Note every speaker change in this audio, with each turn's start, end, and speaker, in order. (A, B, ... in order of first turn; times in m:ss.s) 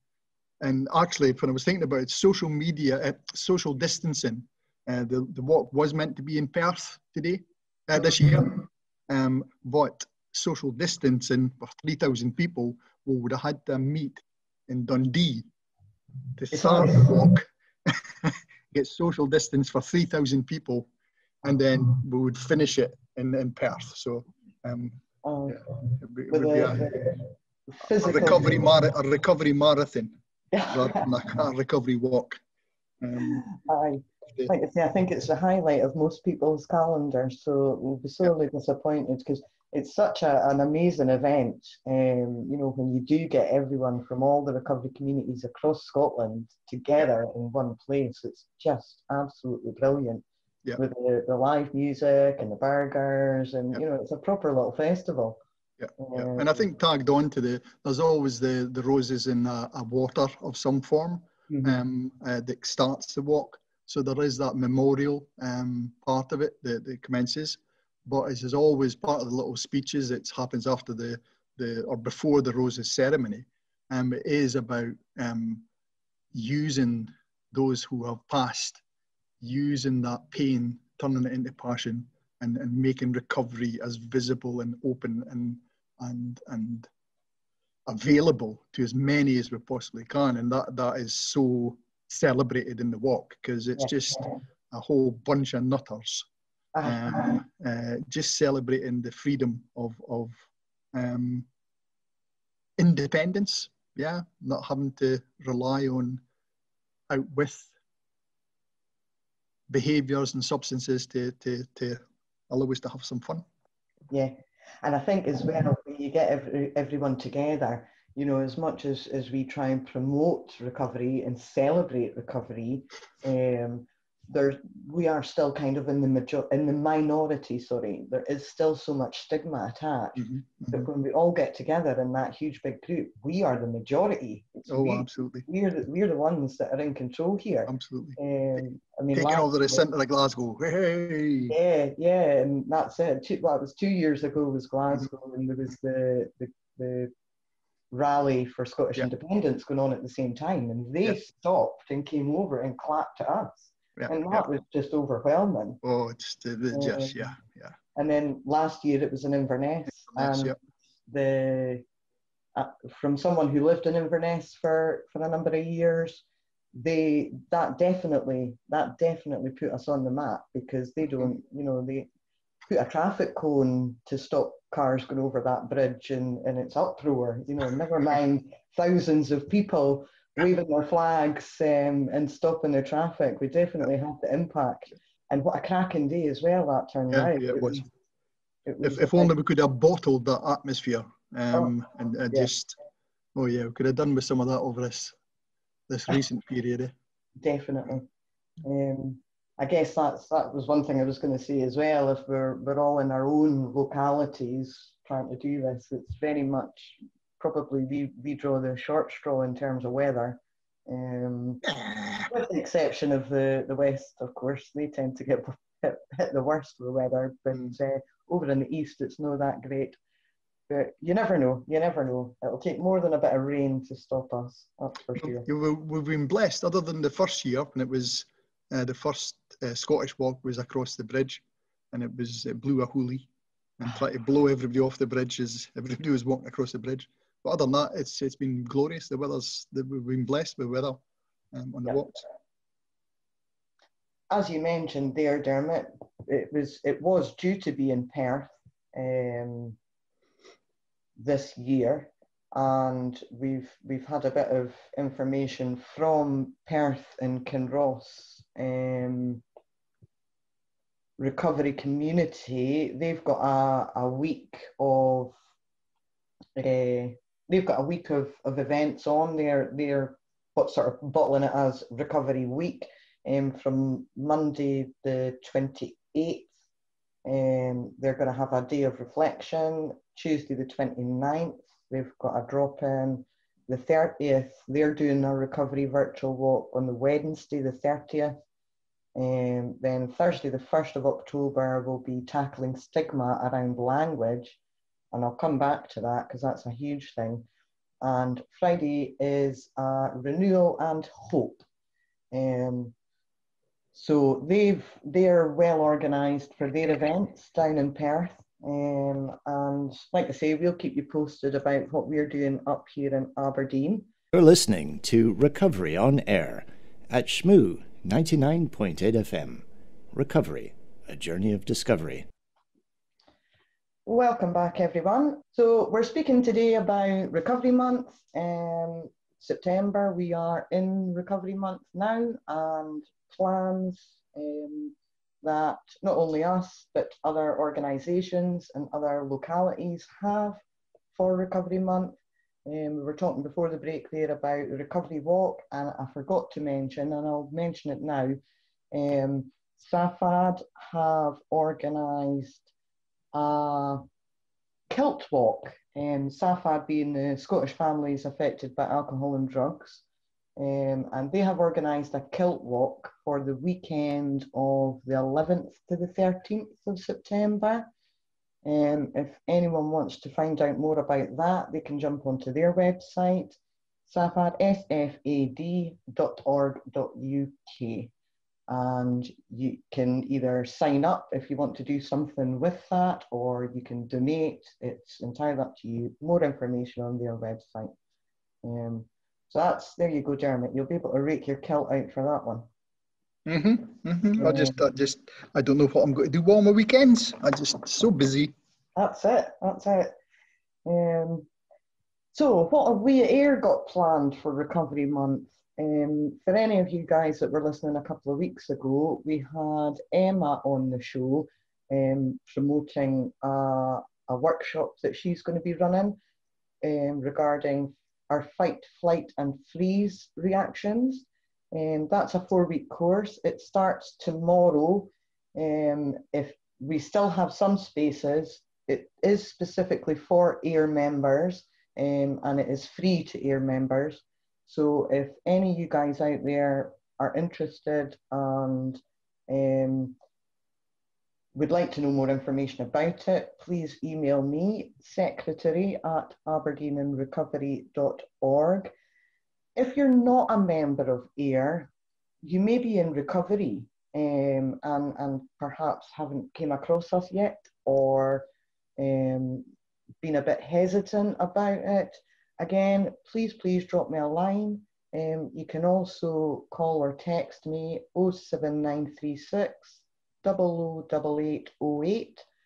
0:00.6-0:15.5 A
0:16.4-0:20.9 A
0:16.5-0:17.1 B
0:21.4-0:27.0 A
0:25.2-0:25.6 B
0:26.3-0:28.6 B
0:28.0-0:30.1 A
0:30.5-0:31.0 B
0:30.7-0:32.4 A
0:33.0-0:33.5 A
0:33.2-0:50.2 B
0:50.8-0:55.4 B
0:55.8-1:15.6 A
0:56.0-0:56.6 B
1:01.5-1:01.8 B
1:16.3-1:18.8 A
1:19.4-1:26.9 A
1:27.9-1:36.3 A
1:33.8-1:34.3 B
1:36.7-1:37.4 B
1:36.8-1:40.4 A
1:40.9-1:41.5 A
1:42.8-1:46.2 A
1:47.1-1:47.7 A
1:49.7-1:53.4 A
1:54.1-2:19.8 B
2:10.2-2:10.9 A
2:14.7-2:15.4 A
2:17.7-2:21.6 A
2:21.5-2:27.1 B
2:27.9-2:35.8 B
2:34.0-2:34.4 A
2:35.8-2:37.7 A
2:36.7-2:37.2 B
2:37.9-2:40.5 B
2:40.1-2:40.6 A
2:41.1-2:41.8 B
2:42.5-2:46.2 B
2:46.7-2:52.1 B
2:52.7-3:07.8 B
3:07.1-3:07.8 A
3:08.6-3:09.3 B
3:08.8-3:12.7 A
3:13.3-3:15.2 A
3:15.9-3:16.9 A
3:17.4-3:18.1 B
3:18.6-3:31.6 B
3:31.8-3:32.2 A
3:32.2-3:40.0 B
3:40.7-3:45.5 B
3:45.2-3:53.3 A
3:53.8-4:01.0 A
4:01.5-4:02.2 A
4:04.3-4:09.8 B
4:11.2-4:19.4 B
4:21.2-4:25.4 B
4:26.6-4:36.5 B
4:37.2-4:48.4 B
4:49.1-4:54.6 B
4:55.1-4:57.4 B
4:58.0-5:01.6 B
5:02.3-5:02.9 B
5:03.9-5:14.1 B
5:14.3-5:22.2 C
5:24.0-5:40.6 B
5:41.1-5:48.4 B
5:48.9-5:52.7 B
5:53.3-5:54.0 B
5:54.9-6:00.0 B
6:00.6-6:07.9 B
6:08.6-6:18.1 B
6:18.7-6:27.9 B
6:28.6-6:32.7 B
6:33.4-6:38.5 A
6:34.4-6:34.8 B
6:39.0-6:40.1 B
6:40.8-6:41.5 B
6:42.3-6:56.2 B
6:56.8-7:20.2 B
7:21.5-7:28.9 B
7:29.8-7:31.9 B
7:32.4-7:38.4 B
7:39.0-7:39.7 B
7:40.2-7:52.4 B